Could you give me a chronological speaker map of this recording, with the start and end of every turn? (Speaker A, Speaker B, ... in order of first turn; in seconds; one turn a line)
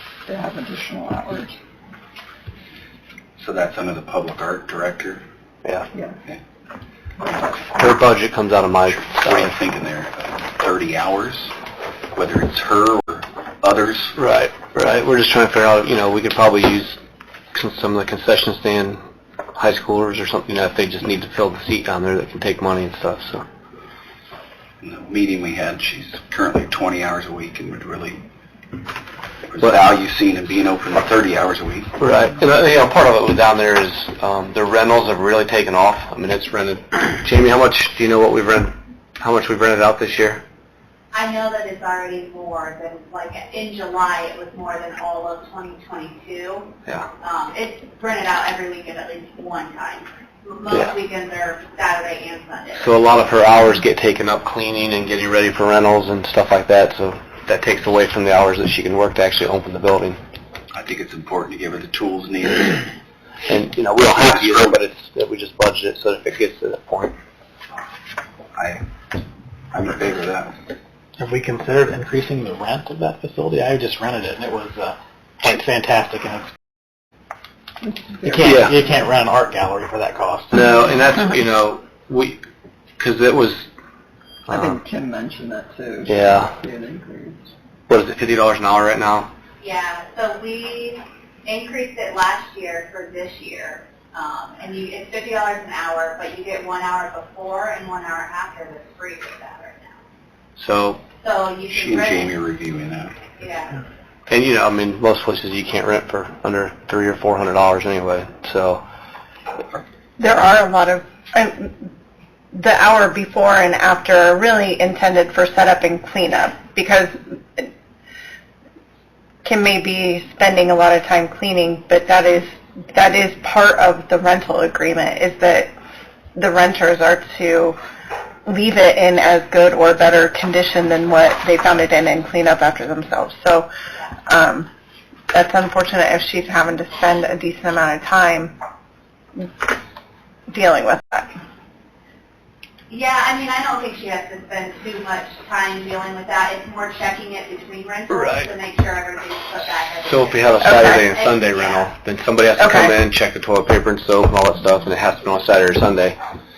Speaker A: 0.3-1.6
Speaker B: 3.4-5.2
Speaker A: 5.9-6.2
Speaker A: 7.2-7.8
Speaker C: 7.8-9.6
Speaker B: 8.9-11.5
Speaker B: 12.2-14.2
Speaker C: 14.2-17.0
Speaker C: 17.5-19.0
Speaker C: 19.6-23.4
Speaker B: 24.8-28.2
Speaker B: 29.5-31.9
Speaker C: 32.0-40.4
Speaker D: 41.1-52.9
Speaker C: 52.8-60.2
Speaker B: 60.7-62.9
Speaker C: 63.5-67.2
Speaker B: 64.2-64.7
Speaker B: 68.5-68.8
Speaker B: 69.7-70.5
Speaker E: 71.2-76.5
Speaker A: 77.8-79.0
Speaker E: 78.2-80.6
Speaker C: 78.4-78.8
Speaker C: 80.5-82.4
Speaker C: 83.0-83.7
Speaker C: 84.5-84.8
Speaker A: 84.5-87.5
Speaker C: 86.1-86.6
Speaker C: 87.9-89.3
Speaker D: 89.6-100.0
Speaker C: 100.6-101.0
Speaker D: 101.2-102.3
Speaker B: 101.7-103.1
Speaker D: 103.4-103.8
Speaker C: 104.3-108.8
Speaker F: 110.2-111.9
Speaker F: 112.5-117.7
Speaker F: 119.4-125.7
Speaker F: 126.3-127.8
Speaker F: 128.5-133.7
Speaker F: 134.3-134.7
Speaker F: 135.3-138.6
Speaker F: 139.4-139.7
Speaker F: 140.5-141.3
Speaker D: 142.9-151.9
Speaker C: 148.1-148.5
Speaker C: 150.1-156.2
Speaker F: 150.6-151.0
Speaker F: 152.6-153.0